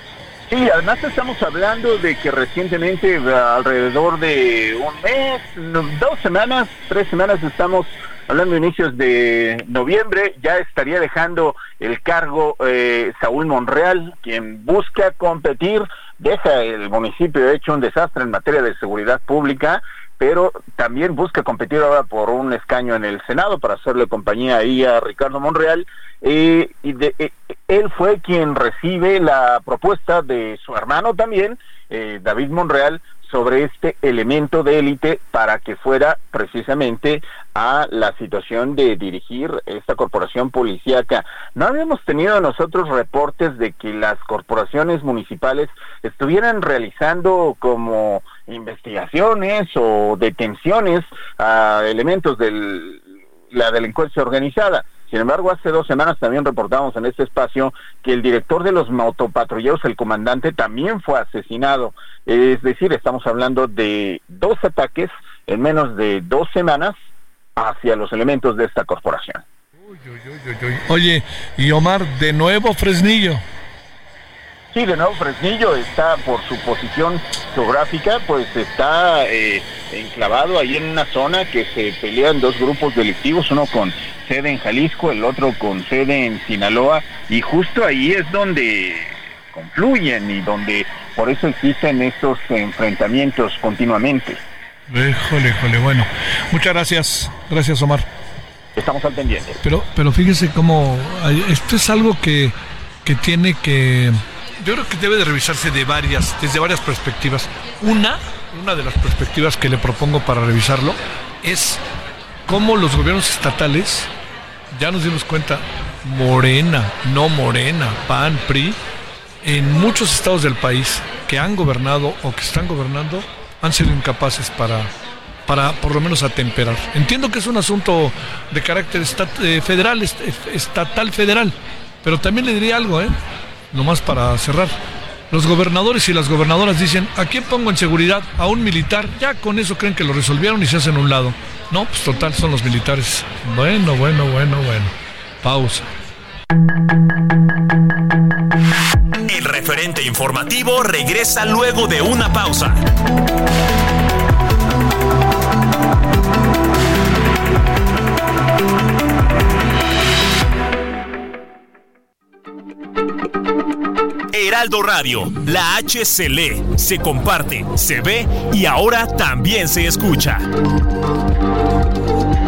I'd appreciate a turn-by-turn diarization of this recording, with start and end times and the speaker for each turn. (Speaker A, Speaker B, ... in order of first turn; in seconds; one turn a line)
Speaker A: 0.5-66.9
Speaker A: 67.5-69.4
Speaker B: 69.9-73.4
Speaker A: 74.7-94.4
Speaker B: 94.9-98.1
Speaker A: 98.8-99.6
Speaker B: 99.6-111.8
Speaker B: 112.5-114.1
Speaker B: 114.7-118.8
Speaker B: 119.4-124.9
Speaker B: 125.5-133.2
Speaker B: 133.7-134.8
Speaker B: 135.3-145.8
Speaker C: 149.3-152.8
Speaker C: 164.3-170.5